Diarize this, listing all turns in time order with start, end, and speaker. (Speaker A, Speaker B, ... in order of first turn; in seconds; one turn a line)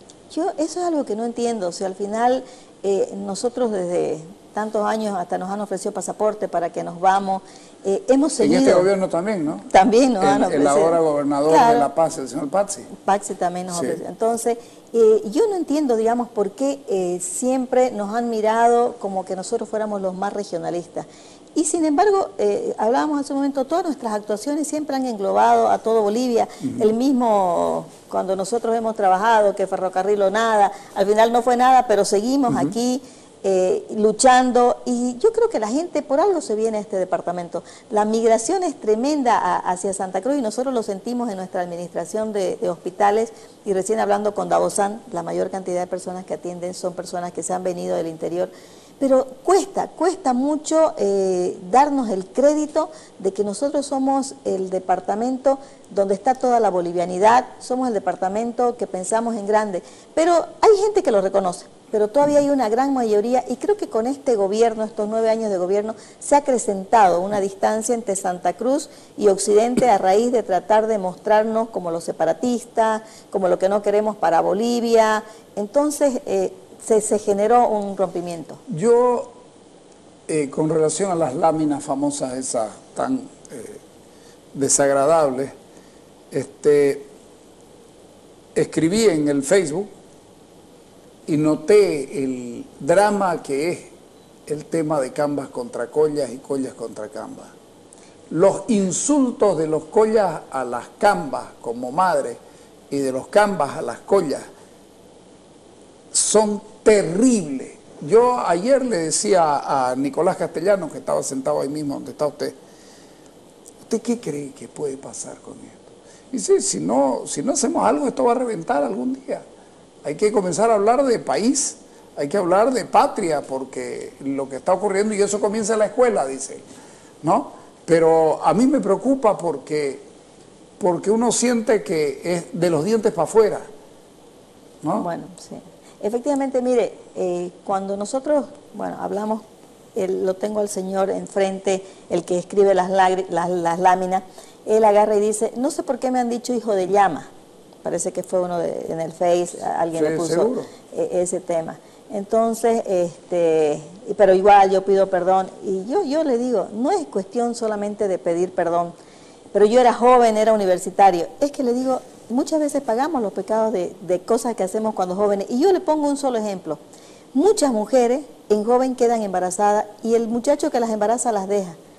Speaker A: 0.3-8.9
Speaker B: 8.4-9.7
Speaker A: 9.7-11.9
Speaker B: 10.2-12.9
Speaker A: 12.9-78.6
Speaker B: 13.7-14.0
Speaker B: 78.7-79.3
Speaker B: 80.3-83.8
Speaker B: 84.5-85.5
Speaker B: 86.3-87.1
Speaker B: 88.5-89.9
Speaker B: 91.3-93.9
Speaker B: 94.5-97.5
Speaker B: 98.3-102.4
Speaker B: 102.9-104.4
Speaker B: 106.1-112.5
Speaker B: 113.8-119.4
Speaker B: 120.0-126.6
Speaker B: 127.2-130.0
Speaker B: 130.8-133.7
Speaker A: 135.0-139.4
Speaker A: 139.9-147.3
Speaker A: 147.8-158.9
Speaker B: 149.9-150.7
Speaker A: 159.5-166.8
Speaker A: 167.3-171.8